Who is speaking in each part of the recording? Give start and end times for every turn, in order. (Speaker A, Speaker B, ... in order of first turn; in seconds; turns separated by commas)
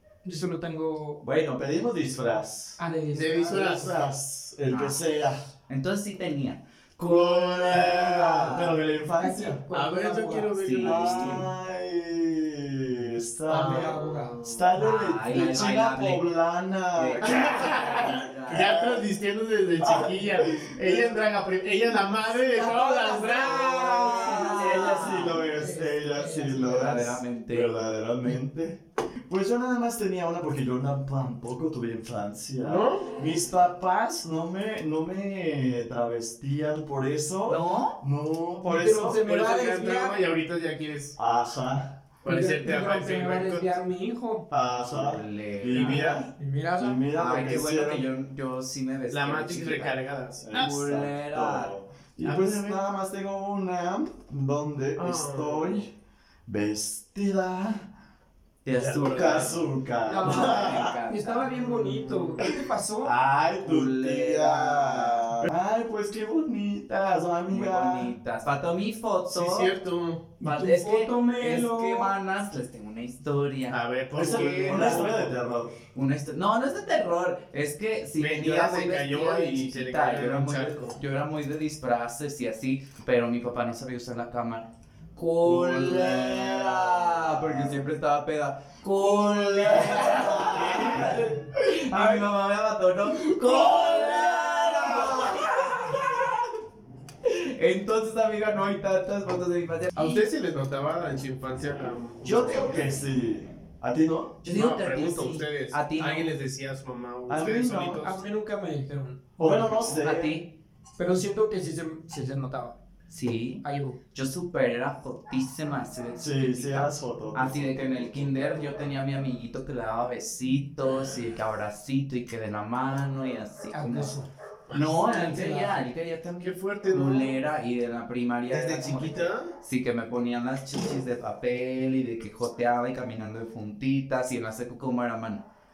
Speaker A: 0.2-1.2, Speaker B: 1.2-2.8, Speaker A: 2.8-3.9, Speaker C: 3.1-4.0, Speaker B: 3.5-5.5, Speaker D: 4.7-5.0, Speaker D: 5.7-8.8, Speaker B: 7.0-9.6, Speaker A: 9.2-10.6, Speaker C: 9.7-11.5, Speaker D: 10.6-11.5, Speaker B: 10.8-19.0, Speaker A: 13.5-14.4, Speaker C: 13.5-14.7, Speaker D: 14.8-16.3, Speaker D: 16.9-18.7, Speaker C: 17.2-24.7, Speaker B: 19.8-21.2, Speaker A: 22.7-26.9, Speaker D: 23.1-25.4, Speaker B: 23.6-39.2, Speaker D: 26.7-27.7, Speaker C: 32.6-33.2, Speaker D: 37.5-38.0, Speaker A: 38.6-40.2, Speaker C: 39.0-41.2, Speaker B: 41.2-42.0, Speaker C: 42.2-43.7, Speaker A: 42.3-44.5, Speaker B: 44.5-48.1, Speaker D: 44.8-46.2, Speaker A: 45.7-47.1, Speaker D: 47.1-50.0, Speaker C: 49.1-50.7, Speaker B: 50.4-55.9, Speaker D: 50.5-51.7, Speaker C: 52.2-52.8, Speaker C: 55.0-55.8, Speaker B: 56.5-57.9, Speaker D: 58.6-59.5, Speaker C: 58.8-59.6, Speaker B: 59.0-61.0, Speaker A: 60.1-63.1, Speaker D: 60.1-61.5, Speaker C: 61.4-62.5, Speaker B: 62.4-68.2, Speaker D: 63.6-65.4, Speaker D: 67.5-69.7, Speaker C: 69.3-70.3, Speaker A: 70.4-72.2, Speaker D: 70.4-75.1, Speaker C: 73.7-75.3, Speaker B: 74.1-75.8, Speaker D: 75.9-96.3, Speaker C: 78.2-81.0, Speaker B: 85.4-87.9, Speaker B: 89.0-92.2, Speaker B: 93.2-95.5, Speaker D: 97.2-100.2, Speaker C: 100.0-103.0, Speaker D: 102.2-102.8, Speaker B: 102.3-104.3, Speaker D: 104.4-106.3, Speaker C: 104.5-108.2, Speaker B: 107.3-108.0, Speaker A: 108.0-109.3, Speaker B: 109.4-110.3, Speaker D: 109.5-110.5, Speaker A: 111.0-112.8, Speaker D: 113.1-124.1, Speaker A: 113.6-114.0, Speaker B: 116.2-118.7, Speaker A: 123.7-124.3, Speaker C: 124.7-125.1, Speaker D: 124.7-135.5, Speaker A: 125.0-125.8, Speaker C: 126.4-127.4, Speaker C: 128.5-129.6